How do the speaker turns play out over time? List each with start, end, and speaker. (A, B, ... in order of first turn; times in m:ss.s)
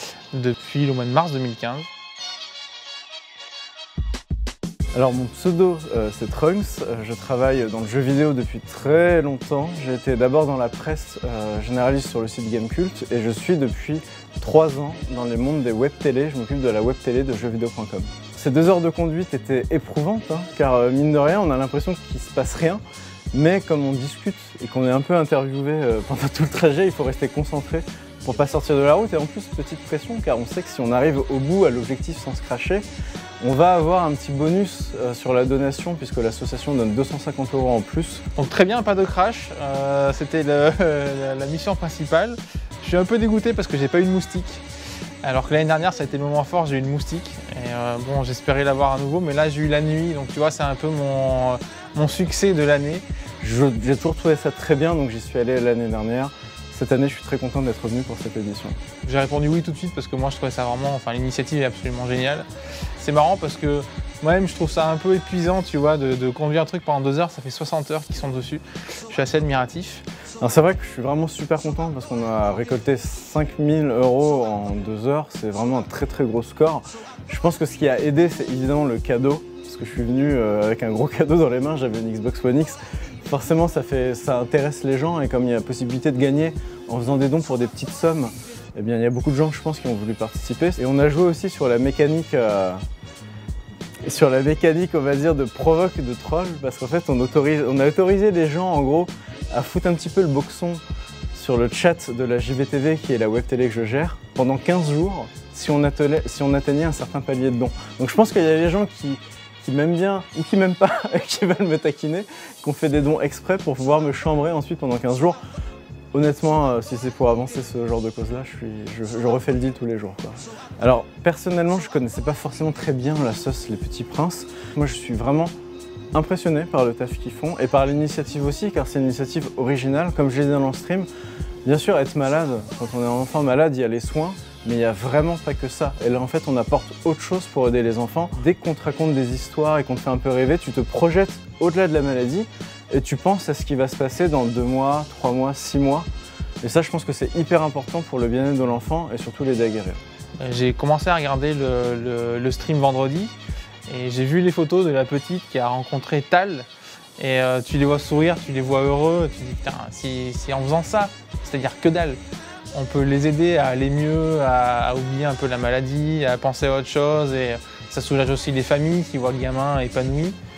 0:00.3-0:01.9 A
0:04.9-0:22.8 B
0:23.3-0:32.8 B
0:33.4-0:38.2 B
0:38.4-0:44.6 A
0:45.2-0:53.0 A
0:53.4-0:58.8 B
0:59.0-1:02.5 A
1:03.0-1:10.0 A
1:10.4-1:32.8 B
1:34.0-1:40.8 B
1:41.3-1:55.4 B
1:56.1-2:05.5 B
2:06.1-2:11.1 B
2:11.6-2:26.1 B
2:26.6-2:30.0 B
2:30.4-2:42.2 A
2:42.7-2:50.4 A